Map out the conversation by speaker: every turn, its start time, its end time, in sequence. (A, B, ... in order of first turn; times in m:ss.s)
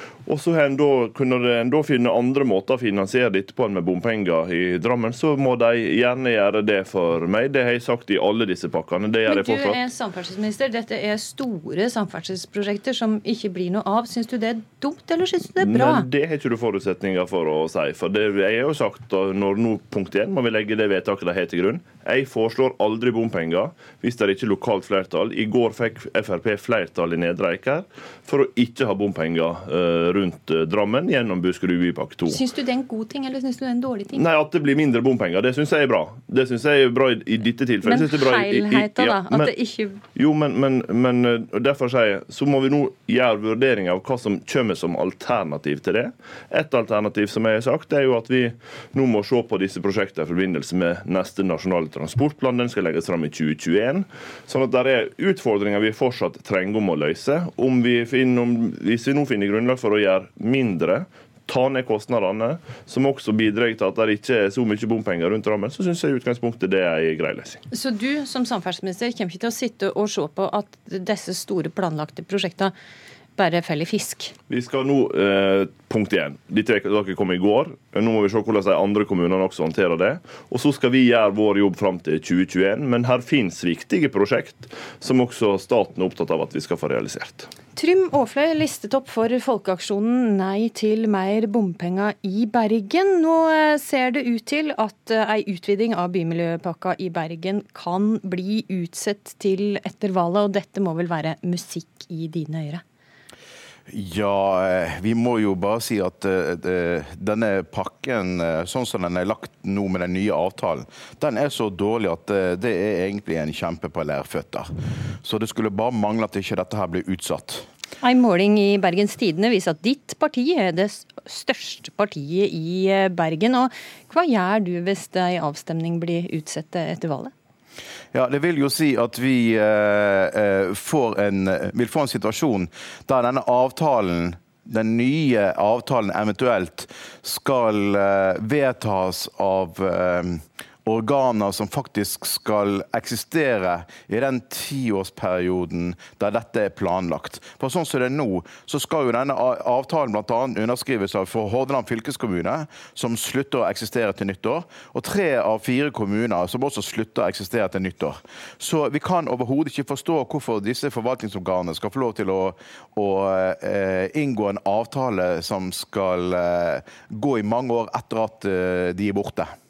0:00.3-0:09.8 A
0:09.3-0:16.1 B
0:15.6-0:32.4 A
0:32.3-0:34.2 B
0:34.1-0:39.5 A
0:37.8-0:40.0 B
0:40.1-1:07.6 A
1:07.7-1:12.7 B
1:13.4-1:14.3 B
1:14.5-1:27.5 A
1:27.8-1:42.8 B
1:43.9-1:54.7 C
1:55.2-1:57.7 C
1:58.0-2:07.3 B
2:08.1-2:49.5 C